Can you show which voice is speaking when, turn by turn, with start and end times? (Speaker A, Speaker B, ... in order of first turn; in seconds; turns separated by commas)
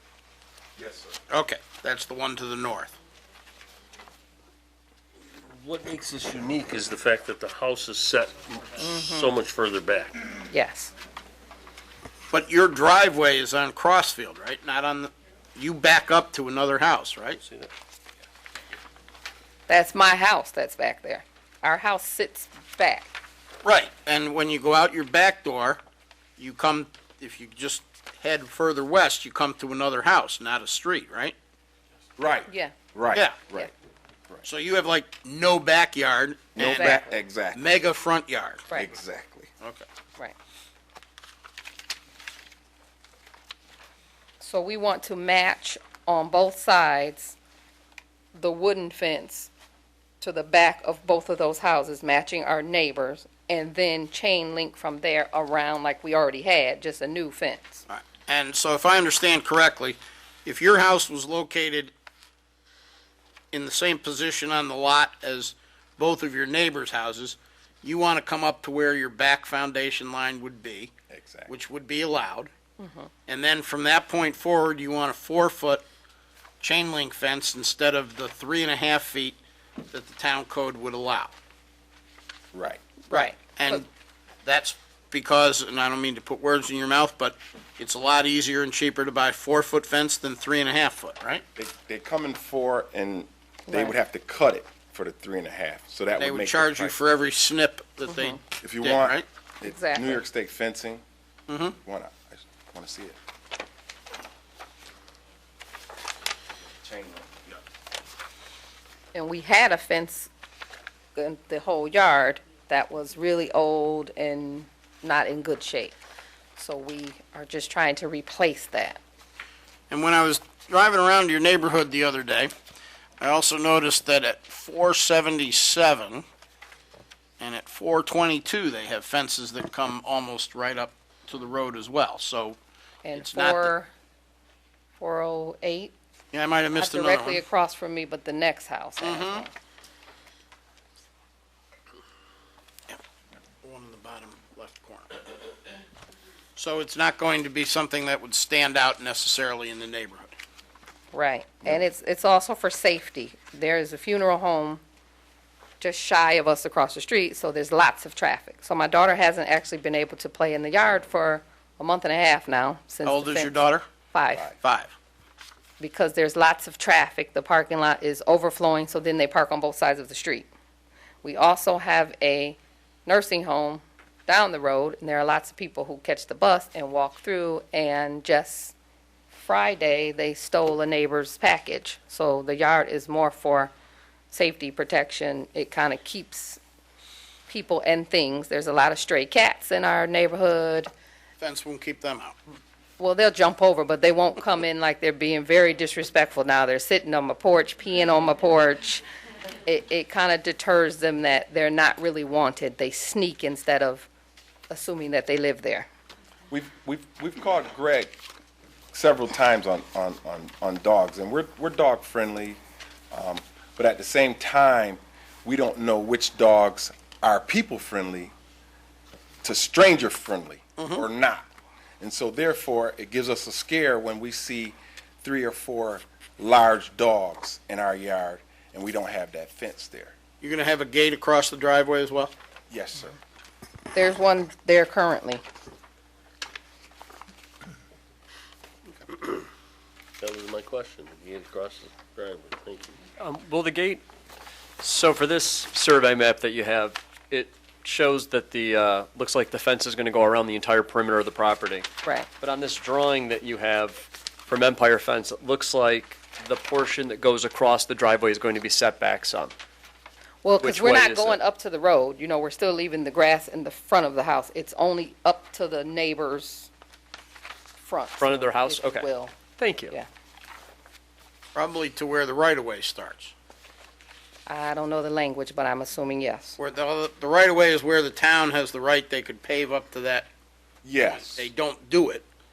Speaker A: 0.8-1.1, Speaker B: 1.3-3.0, Speaker C: 5.5-10.2, Speaker D: 8.8-9.3, Speaker D: 10.5-10.9, Speaker B: 12.3-17.4, Speaker C: 17.4-17.7, Speaker D: 19.7-23.1, Speaker B: 23.6-25.8, Speaker B: 26.4-31.3, Speaker A: 32.2-33.7, Speaker D: 32.5-32.8, Speaker B: 34.5-37.0, Speaker A: 36.5-37.7, Speaker D: 36.6-37.2, Speaker B: 37.5-38.7, Speaker A: 38.7-39.5, Speaker D: 44.4-47.4, Speaker D: 48.3-49.5, Speaker D: 50.2-57.8, Speaker B: 57.9-61.9, Speaker B: 63.5-70.9, Speaker A: 71.1-71.5, Speaker B: 71.5-72.5, Speaker D: 72.8-73.1, Speaker B: 73.3-75.8, Speaker B: 76.6-79.4, Speaker B: 79.9-81.3, Speaker A: 82.5-82.8, Speaker D: 83.1-83.8, Speaker B: 83.1-83.9, Speaker B: 84.4-91.4, Speaker A: 91.6-97.0, Speaker D: 93.7-94.0, Speaker B: 96.1-99.2, Speaker D: 98.1-98.4, Speaker A: 98.6-101.0, Speaker D: 99.6-100.2, Speaker B: 101.5-101.8, Speaker A: 101.8-103.2, Speaker A: 106.8-107.6, Speaker D: 109.1-110.3, Speaker D: 111.2-116.0, Speaker D: 116.6-119.0, Speaker B: 119.9-122.5, Speaker B: 123.2-126.2, Speaker B: 127.4-132.6, Speaker D: 133.0-133.9, Speaker B: 133.1-133.7, Speaker D: 135.0-135.9, Speaker B: 136.3-137.4, Speaker D: 136.8-139.5, Speaker B: 139.0-139.5, Speaker B: 143.6-145.2, Speaker B: 146.6-150.3, Speaker D: 151.1-154.8, Speaker D: 155.8-163.6, Speaker B: 163.0-163.8, Speaker D: 164.1-164.5, Speaker B: 164.6-164.9, Speaker D: 165.8-170.5, Speaker D: 171.2-178.8, Speaker D: 179.3-183.7, Speaker D: 184.3-186.6, Speaker D: 187.5-190.9, Speaker B: 191.4-192.3, Speaker D: 193.0-199.0, Speaker D: 199.7-204.1, Speaker D: 204.7-205.9, Speaker A: 206.5-208.2, Speaker A: 208.9-218.3, Speaker A: 219.4-221.5, Speaker B: 220.8-221.1, Speaker A: 222.0-230.2, Speaker B: 230.4-232.3, Speaker A: 232.7-233.2, Speaker D: 233.9-235.4, Speaker C: 240.2-243.0, Speaker E: 243.2-244.0, Speaker E: 244.8-251.9, Speaker D: 252.0-252.3, Speaker E: 252.4-259.5, Speaker D: 260.4-266.7, Speaker E: 260.6-261.4, Speaker D: 267.8-269.4, Speaker E: 268.2-269.9, Speaker B: 271.5-273.3, Speaker D: 274.5-276.6, Speaker B: 276.6-280.3, Speaker A: 280.8-281.5, Speaker B: 281.1-282.2